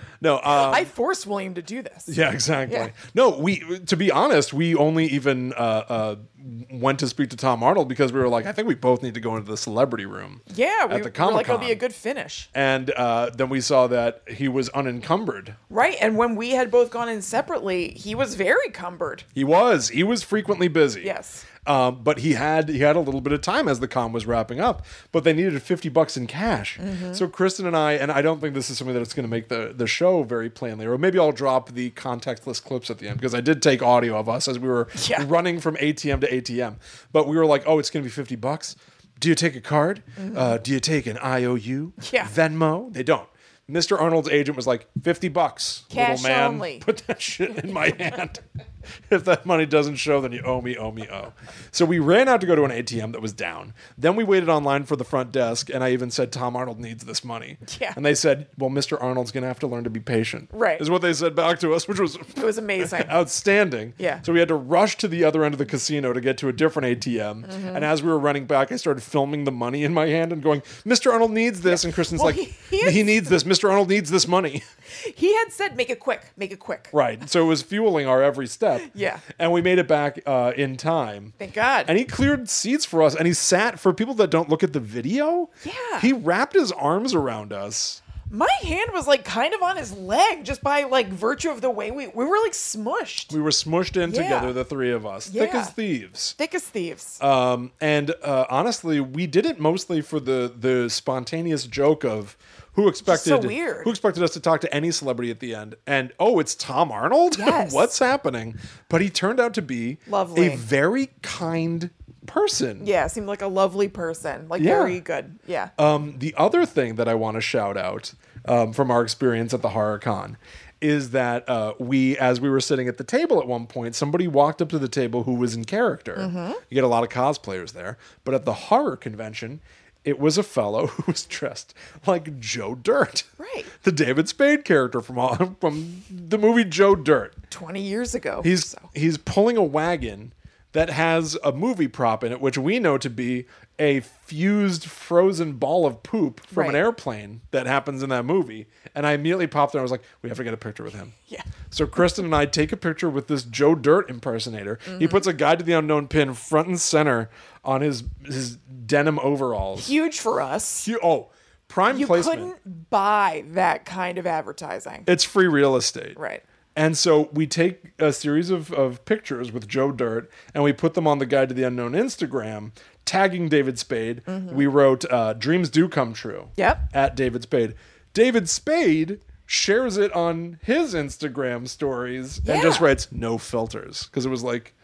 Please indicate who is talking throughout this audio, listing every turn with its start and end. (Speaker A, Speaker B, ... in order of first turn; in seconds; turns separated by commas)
Speaker A: 0.2-0.9, Speaker B: 0.5-2.2, Speaker A: 2.1-11.8, Speaker B: 10.5-12.5, Speaker A: 12.5-15.6, Speaker B: 15.7-19.2, Speaker A: 19.3-48.4, Speaker B: 21.0-21.4, Speaker B: 26.8-27.2, Speaker B: 35.0-35.3, Speaker B: 40.2-40.5, Speaker B: 42.0-42.3, Speaker B: 45.9-46.8, Speaker A: 49.1-74.6, Speaker B: 57.7-58.0, Speaker B: 60.5-60.8, Speaker B: 62.4-63.1, Speaker B: 64.0-64.2, Speaker B: 67.4-67.8, Speaker B: 71.7-73.3, Speaker B: 74.9-76.9, Speaker A: 76.9-88.0, Speaker B: 78.8-79.2, Speaker B: 81.4-81.9, Speaker B: 85.6-86.1, Speaker B: 88.3-93.3, Speaker A: 93.3-96.3, Speaker B: 94.0-94.5, Speaker B: 95.2-95.7, Speaker B: 96.4-97.2, Speaker A: 97.2-112.9, Speaker B: 103.0-103.9, Speaker B: 107.3-107.9, Speaker B: 110.1-110.6, Speaker B: 112.8-115.7, Speaker A: 114.6-115.0, Speaker A: 115.8-137.4, Speaker B: 126.2-126.6, Speaker B: 133.4-133.7, Speaker B: 137.5-138.9, Speaker A: 138.4-151.1, Speaker B: 146.5-146.8, Speaker A: 151.7-159.9, Speaker B: 154.9-155.2, Speaker B: 159.8-160.9, Speaker A: 160.8-162.5, Speaker B: 161.9-165.1, Speaker A: 165.1-166.2, Speaker B: 166.2-166.4, Speaker A: 166.7-184.7, Speaker B: 174.3-174.6, Speaker B: 176.6-176.8, Speaker B: 182.4-182.9